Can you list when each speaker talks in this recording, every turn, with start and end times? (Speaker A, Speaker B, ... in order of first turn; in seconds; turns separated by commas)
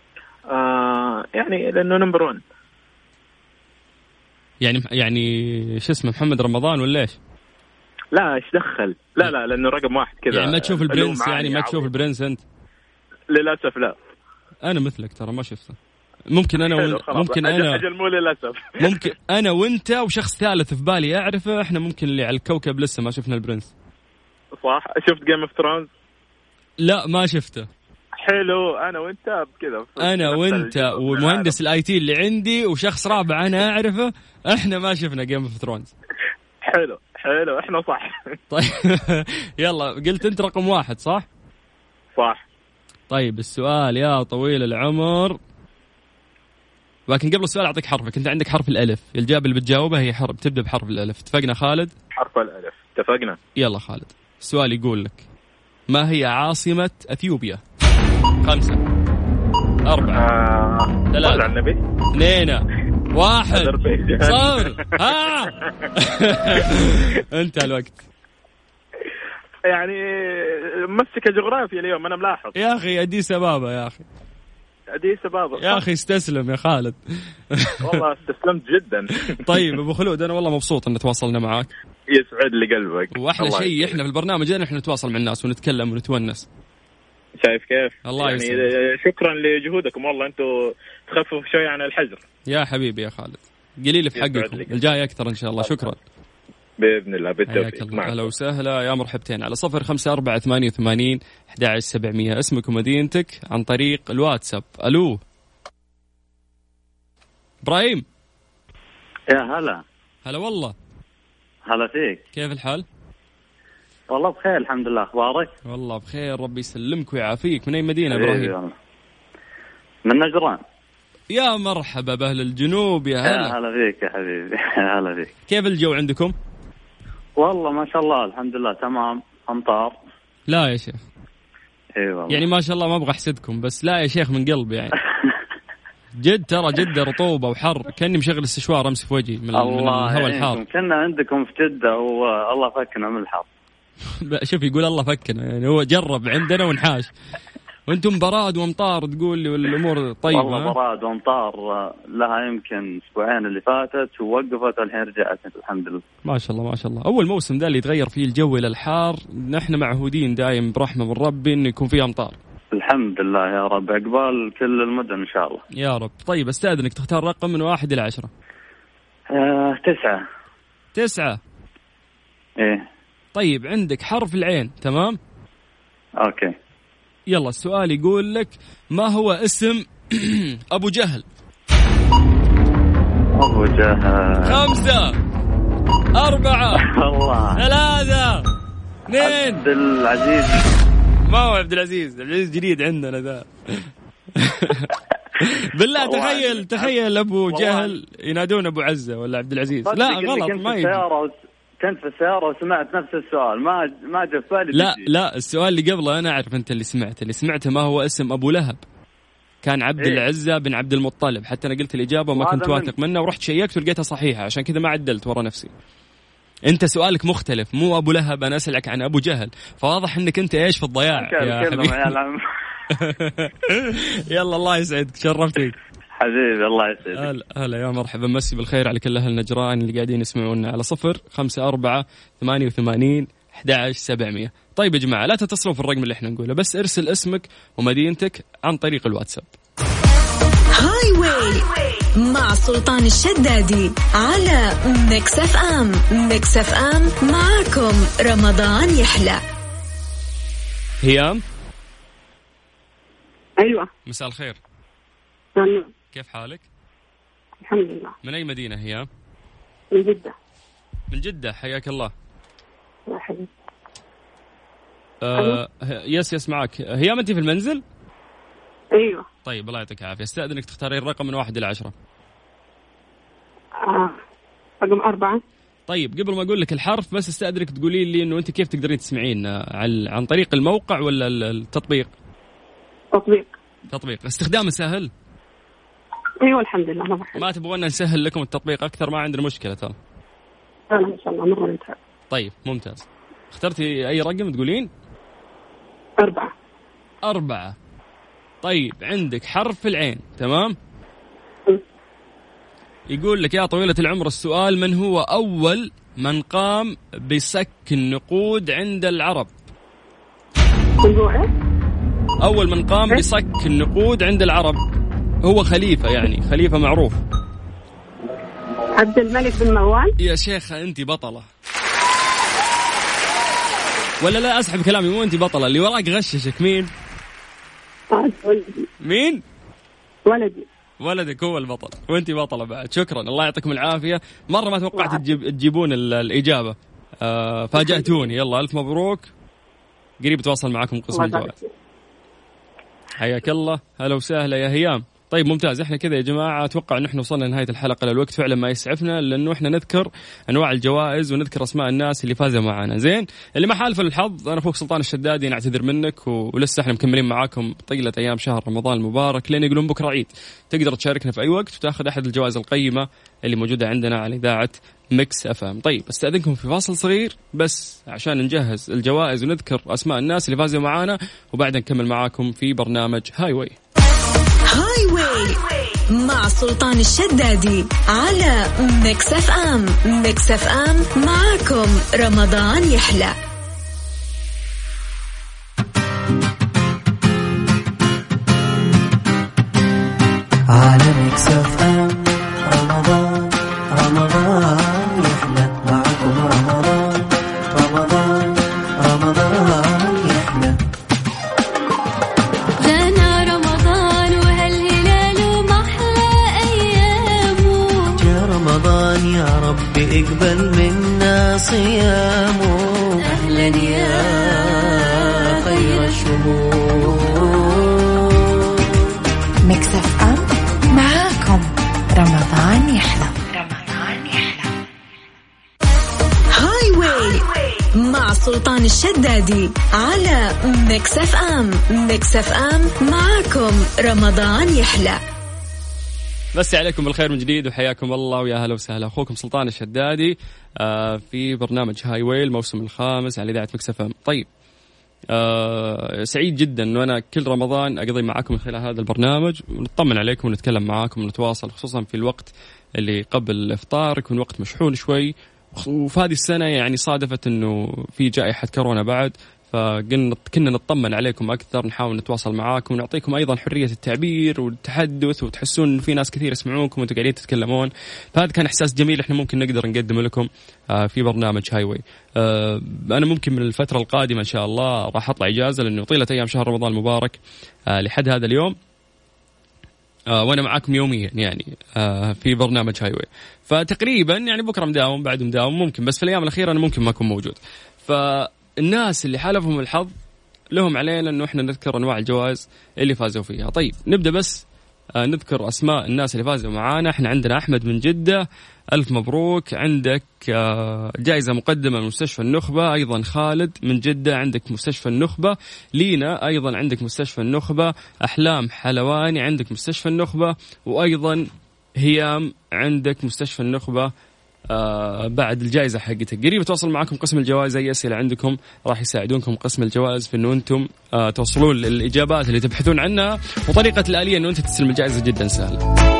Speaker A: 0.5-2.4, Speaker B: 4.6-7.2, Speaker A: 8.1-11.9, Speaker B: 10.3-12.4, Speaker A: 13.3-13.9, Speaker B: 14.6-15.8, Speaker B: 16.3-17.8, Speaker A: 16.7-19.0, Speaker B: 18.8-23.7, Speaker A: 24.5-25.9, Speaker B: 26.8-27.7, Speaker A: 28.2-31.6, Speaker B: 30.0-35.9, Speaker A: 36.7-38.2, Speaker B: 38.5-41.2, Speaker A: 42.1-42.4, Speaker B: 43.1-45.4, Speaker B: 47.1-51.9, Speaker A: 52.2-53.4, Speaker B: 53.6-55.2, Speaker B: 55.9-57.6, Speaker B: 58.4-58.8, Speaker B: 59.9-60.2, Speaker A: 60.1-61.8, Speaker B: 61.1-61.5, Speaker B: 62.1-62.6, Speaker B: 63.1-68.0, Speaker A: 63.5-64.9, Speaker A: 69.7-72.5, Speaker B: 72.5-74.0, Speaker A: 75.0-75.8, Speaker B: 75.6-77.0, Speaker B: 77.5-78.0, Speaker A: 77.8-79.6, Speaker B: 79.5-81.7, Speaker A: 82.1-84.0, Speaker B: 83.1-86.5, Speaker A: 87.4-90.5, Speaker B: 88.0-88.7, Speaker A: 91.1-92.2, Speaker B: 92.5-96.0, Speaker A: 94.2-94.9, Speaker A: 96.8-98.2, Speaker B: 97.5-105.2, Speaker B: 107.6-108.0, Speaker C: 109.3-109.8, Speaker B: 110.2-110.7, Speaker C: 111.7-112.2, Speaker B: 112.3-112.8, Speaker C: 114.1-115.5, Speaker B: 115.7-118.5, Speaker C: 118.1-118.7, Speaker C: 120.0-120.6, Speaker B: 121.3-123.5, Speaker C: 123.2-125.3, Speaker B: 125.5-126.3, Speaker C: 127.4-129.9, Speaker B: 130.5-131.0, Speaker C: 132.0-132.5, Speaker B: 132.3-134.9, Speaker B: 136.2-140.6, Speaker C: 139.5-143.4, Speaker B: 144.2-147.1, Speaker B: 147.9-150.7, Speaker C: 150.3-156.0, Speaker B: 156.2-162.4, Speaker C: 162.7-165.6, Speaker B: 165.8-168.3, Speaker C: 169.3-170.2, Speaker B: 170.9-171.4, Speaker B: 173.3-175.2, Speaker C: 176.2-176.5, Speaker B: 177.3-181.2, Speaker C: 183.4-184.7, Speaker B: 184.4-185.2, Speaker B: 186.2-186.8, Speaker C: 186.8-187.6, Speaker B: 187.6-188.4, Speaker B: 189.1-189.6, Speaker C: 189.2-190.6, Speaker B: 191.3-193.9, Speaker B: 194.4-194.9, Speaker B: 195.4-201.0, Speaker C: 195.9-196.9, Speaker C: 197.5-197.9, Speaker C: 199.8-205.0, Speaker B: 204.7-208.8, Speaker B: 209.6-215.7, Speaker C: 210.0-210.2, Speaker C: 212.3-212.9, Speaker B: 216.7-222.1, Speaker C: 221.1-222.3, Speaker B: 222.9-225.8, Speaker C: 226.2-227.3, Speaker B: 227.2-239.5, Speaker D: 240.7-249.4, Speaker B: 251.0-251.4, Speaker E: 253.6-253.9, Speaker B: 254.0-254.6, Speaker E: 255.6-255.9, Speaker B: 256.1-256.6, Speaker E: 257.6-258.1, Speaker B: 258.2-259.1, Speaker E: 259.9-260.3, Speaker B: 261.1-262.1, Speaker E: 263.1-263.5, Speaker B: 265.2-267.8, Speaker E: 269.0-269.2, Speaker B: 269.4-271.9, Speaker E: 273.9-274.2, Speaker E: 274.8-275.4, Speaker B: 275.9-282.1, Speaker E: 283.1-283.5, Speaker B: 283.9-285.1, Speaker E: 286.4-287.4, Speaker B: 287.3-289.9, Speaker E: 290.9-291.9, Speaker B: 292.3-294.9, Speaker E: 296.2-296.5, Speaker B: 297.2-297.8, Speaker B: 298.6-300.8, Speaker B: 303.1-309.5, Speaker E: 311.0-311.5, Speaker B: 312.4-314.8, Speaker B: 315.4-317.2, Speaker E: 318.9-320.1, Speaker B: 320.2-321.5, Speaker B: 324.2-326.9, Speaker E: 328.1-328.8, Speaker B: 329.0-329.4, Speaker E: 330.2-330.6, Speaker B: 331.0-339.3, Speaker E: 334.9-335.2, Speaker E: 337.8-338.2, Speaker B: 340.2-341.6, Speaker E: 341.1-341.7, Speaker B: 343.2-373.8, Speaker D: 374.7-383.3, Speaker F: 390.7-400.7, Speaker G: 402.8-408.1, Speaker F: 408.2-418.5, Speaker G: 413.2-414.3, Speaker G: 415.7-416.2, Speaker H: 419.6-424.8, Speaker D: 426.5-435.2, Speaker B: 436.5-444.5, Speaker B: 445.3-477.4, Speaker B: 477.9-478.7, Speaker B: 480.3-490.1, Speaker B: 490.7-494.6, Speaker B: 495.2-511.4, Speaker B: 512.0-514.1, Speaker B: 514.7-525.8